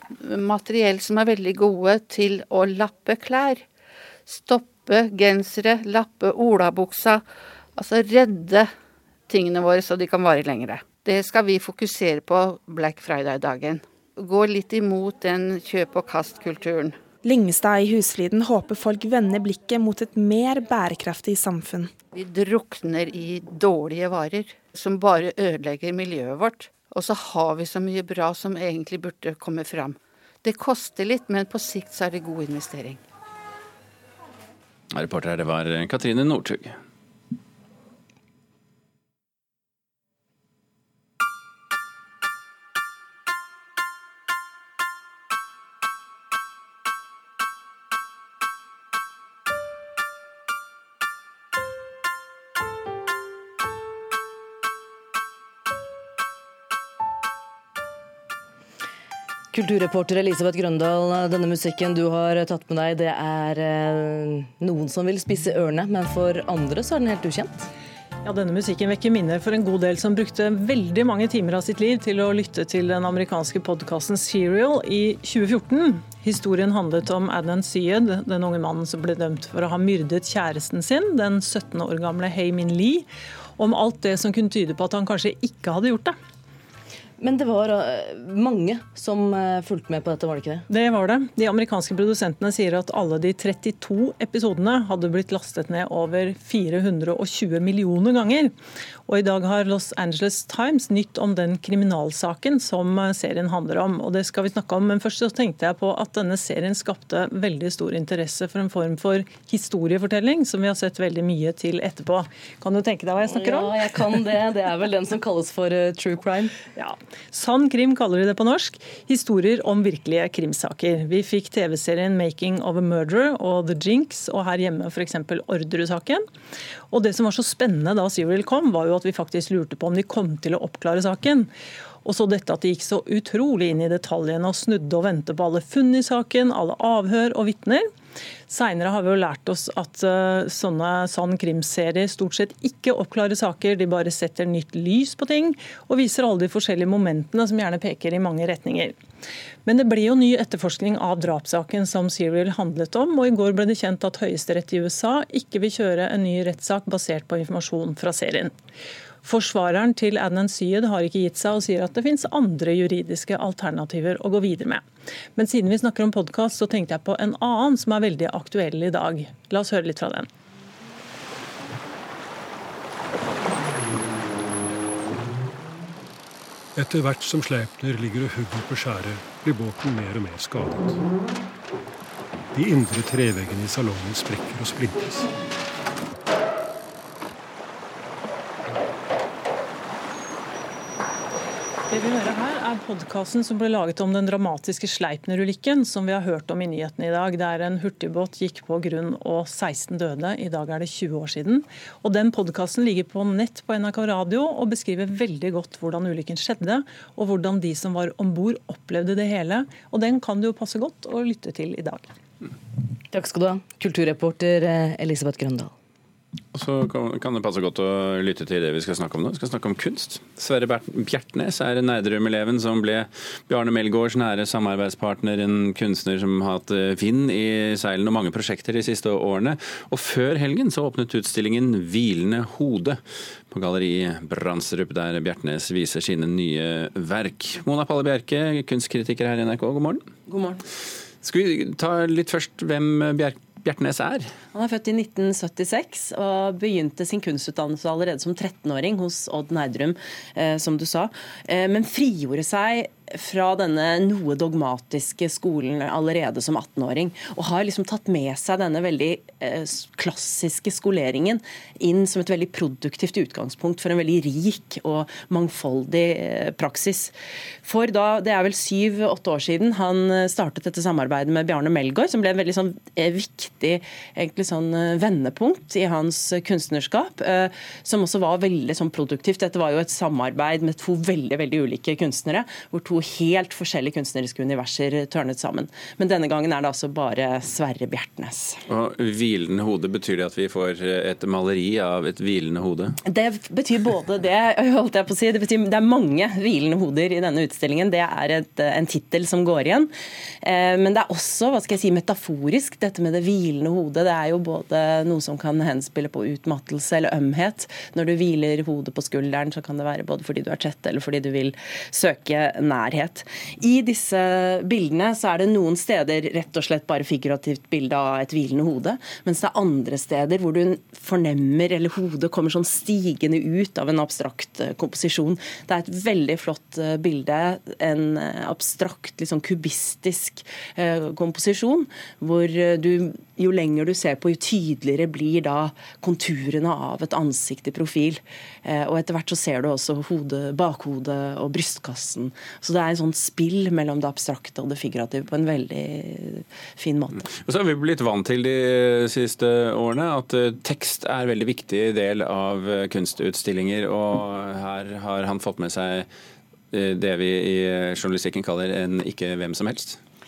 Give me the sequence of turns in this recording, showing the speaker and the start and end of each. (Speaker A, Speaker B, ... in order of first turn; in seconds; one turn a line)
Speaker A: 0.2-3.6
Speaker A: 4.3-7.2
Speaker A: 7.8-8.7
Speaker A: 9.3-17.0
Speaker B: 17.2-21.9
Speaker A: 22.1-33.0
Speaker C: 34.9-36.8
Speaker D: 59.5-67.7
Speaker E: 68.2-83.1
Speaker E: 83.6-86.2
Speaker D: 87.2-90.7
Speaker E: 90.7-98.5
Speaker E: 99.1-114.2
Speaker D: 113.3-116.5
Speaker E: 116.8-126.2
Speaker E: 126.9-131.5
Speaker E: 132.1-137.8
Speaker E: 138.5-148.9
Speaker E: 149.7-158.5
Speaker E: 159.2-164.8
Speaker E: 165.4-170.3
Speaker F: 176.8-181.0
Speaker F: 182.5-185.3
Speaker E: 191.9-212.1
Speaker D: 213.1-215.7
Speaker C: 216.5-233.0
Speaker C: 233.5-240.0
Speaker G: 240.3-240.6
Speaker C: 241.2-244.3
Speaker G: 244.5-288.6
Speaker C: 288.7-292.9
Speaker G: 293.1-347.2
Speaker C: 347.4-356.1
Speaker C: 356.7-360.0